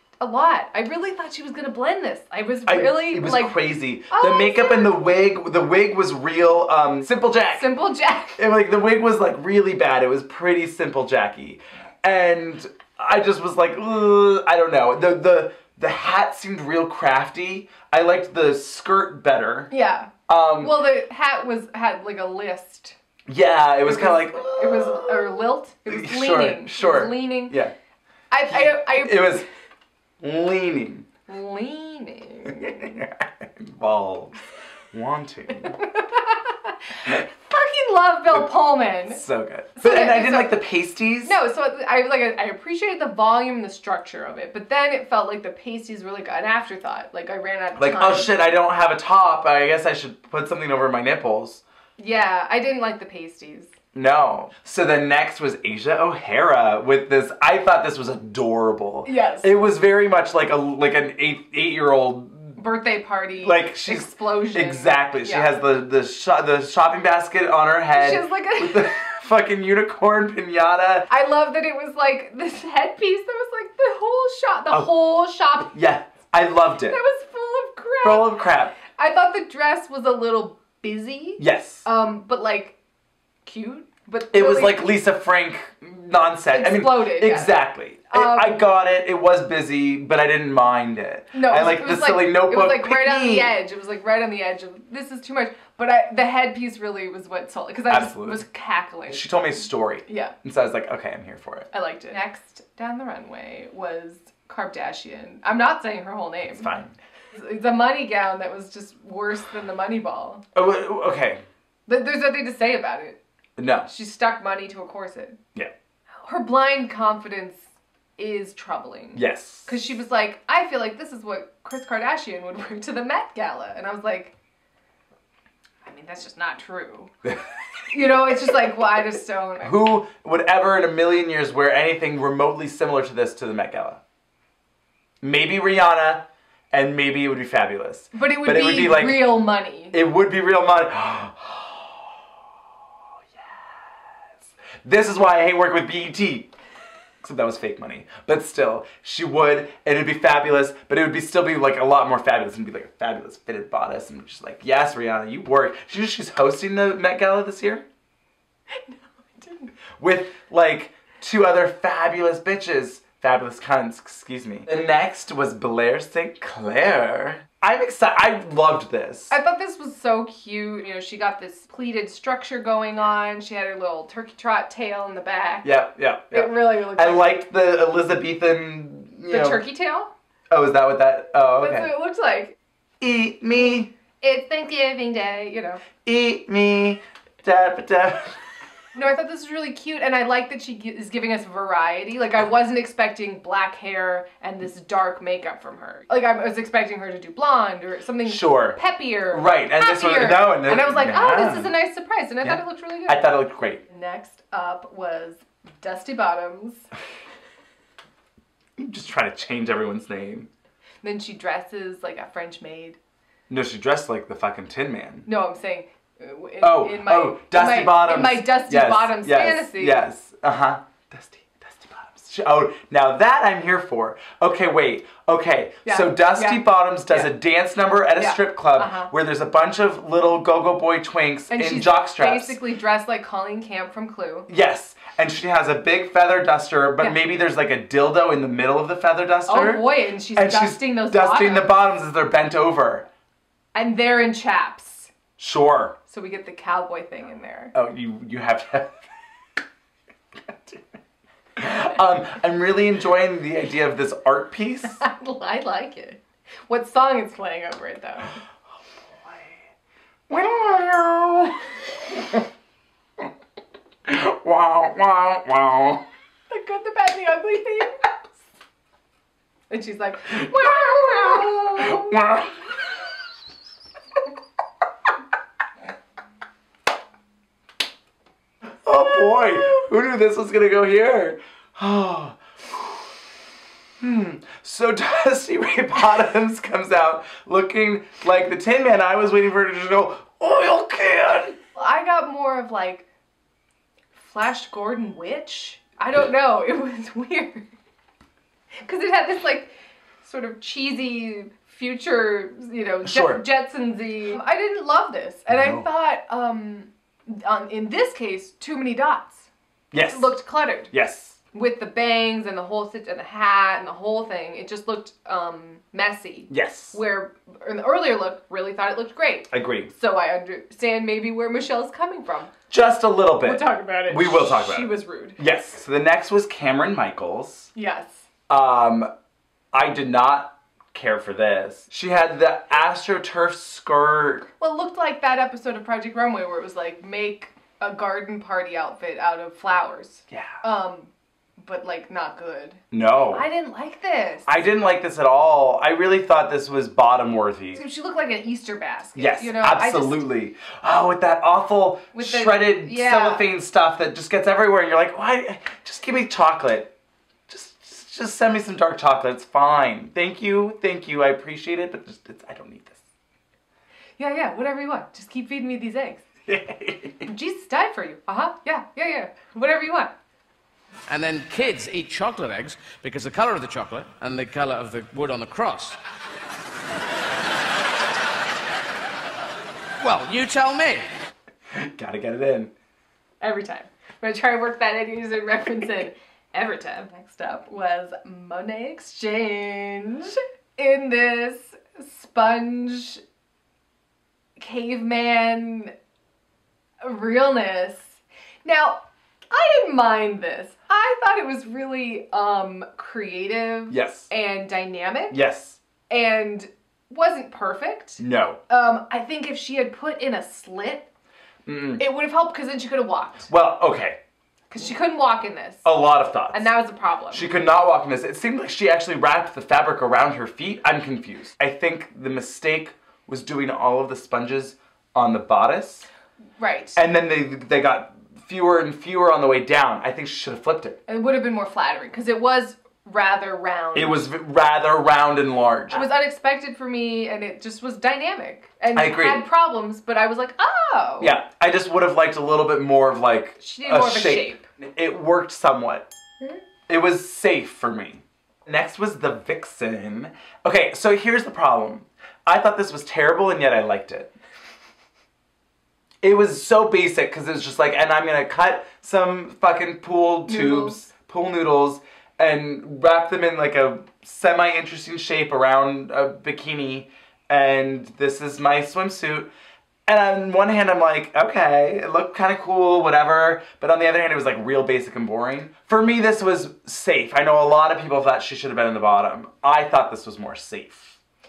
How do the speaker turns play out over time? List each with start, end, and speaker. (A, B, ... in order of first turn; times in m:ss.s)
0:00.2-0:03.6 A
0:02.6-0:07.7 B
0:04.1-0:05.0 A
0:07.5-0:08.4 A
0:08.4-0:19.7 B
0:19.7-0:23.0 A
0:20.3-0:20.7 B
0:23.3-0:27.7 B
0:23.8-0:27.6 A
0:28.3-0:29.4 A
0:28.5-0:29.4 B
0:30.2-0:31.0 B
0:31.3-0:32.9 A
0:32.6-0:34.4 B
0:34.9-0:35.8 B
0:35.7-0:39.2 A
0:39.1-0:41.3 B
0:39.8-0:40.6 A
0:41.2-0:48.3 A
0:47.8-0:51.6 B
0:52.0-0:53.7 A
0:53.9-1:02.6 B
0:59.0-0:59.5 A
1:02.6-1:05.5 A
1:03.4-1:11.1 B
1:07.9-1:09.0 A
1:11.1-1:15.7 A
1:15.6-1:17.0 B
1:16.9-1:22.7 A
1:18.0-1:18.7 B
1:21.4-1:21.8 B
1:23.4-1:25.0 A
1:24.3-1:33.6 B
1:26.5-1:27.6 A
1:28.1-1:28.6 A
1:31.3-1:39.2 A
1:37.9-1:38.4 B
1:39.1-1:41.7 B
1:40.1-1:40.3 A
1:41.7-1:46.7 A
1:46.5-1:46.9 B
1:47.3-1:50.4 A
1:50.5-1:51.4 B
1:51.9-1:53.2 A
1:53.6-1:53.9 B
1:53.9-1:55.4 A
1:56.2-2:04.3 A
1:59.1-1:59.7 B
2:05.8-2:07.1 A
2:07.9-2:09.7 A
2:09.6-2:14.0 B
2:15.2-2:19.4 B
2:18.1-2:20.0 A
2:19.9-2:22.0 B
2:24.8-2:26.5 B
2:27.2-2:37.8 B
2:38.8-2:39.7 A
2:40.0-2:49.3 B
2:49.3-2:55.7 A
2:55.6-2:59.6 B
2:56.3-2:57.3 A
2:59.3-3:00.1 A
3:00.5-3:01.9 B
3:01.6-3:02.6 A
3:03.0-3:03.9 B
3:04.2-3:05.8 A
3:06.0-3:08.4 B
3:08.9-3:26.9 A
3:18.3-3:18.8 B
3:19.3-3:21.7 B
3:22.4-3:23.8 B
3:28.8-3:30.5 B
3:31.0-3:33.0 A
3:33.5-3:35.3 B
3:35.2-3:40.1 A
3:36.6-3:52.6 B
3:45.8-3:47.4 A
3:48.1-3:49.1 A
3:51.5-3:54.5 A
3:54.5-4:03.1 B
3:59.5-4:01.7 A
4:03.7-4:05.1 A
4:05.4-4:06.0 B
4:06.1-4:07.7 A
4:07.7-4:09.1 B
4:10.4-4:10.8 B
4:11.6-4:15.0 B
4:14.9-4:18.4 A
4:20.3-4:22.5 B
4:24.0-4:26.0 B
4:26.5-4:28.1 A
4:29.7-4:32.3 A
4:30.3-4:32.6 B
4:38.8-4:43.0 B
4:44.0-4:51.6 B
4:51.8-4:53.0 A
4:54.2-4:57.6 A
4:58.8-5:09.5 A
5:03.0-5:03.4 B
5:05.5-5:05.8 B
5:09.9-5:10.3 B
5:10.0-5:10.9 A
5:10.9-5:11.4 B
5:11.5-5:22.5 A
5:16.5-5:17.0 B
5:19.5-5:19.9 B
5:22.7-5:27.7 B
5:23.4-5:25.4 A
5:27.7-5:28.2 A
5:28.5-5:29.1 B
5:29.7-5:34.5 B
5:34.6-5:44.6 A
5:40.3-5:40.5 B
5:42.9-5:43.4 B
5:44.5-5:47.8 B
5:47.7-5:50.2 A
5:49.1-5:56.9 B
5:52.1-5:53.4 A
5:57.5-6:03.0 B
6:04.2-6:06.2 A
6:06.5-6:07.3 B
6:07.2-6:10.1 A
6:11.1-6:16.0 C
6:20.0-6:21.1 C
6:21.7-6:22.7 B
6:23.4-6:33.2 A
6:34.6-6:35.9 A
6:37.0-6:45.4 A
6:43.9-6:44.3 B
6:45.3-6:45.8 B
6:46.1-6:51.1 A
6:48.2-6:48.6 B
6:51.6-6:52.0 B
6:52.0-6:53.5 A
6:53.5-6:54.2 B
6:54.7-6:55.8 A
6:55.8-6:56.7 B
6:56.5-6:57.5 A
6:57.3-7:06.1 B
7:06.6-7:07.0 A
7:07.0-7:11.0 B
7:11.1-7:14.3 A
7:13.9-7:16.1 B
7:15.9-7:21.3 A
7:18.9-7:19.4 B
7:21.2-7:26.1 B
7:23.6-7:24.6 A
7:26.9-7:34.3 B
7:36.2-7:49.5 B
7:40.5-7:41.0 A
7:50.1-8:01.2 B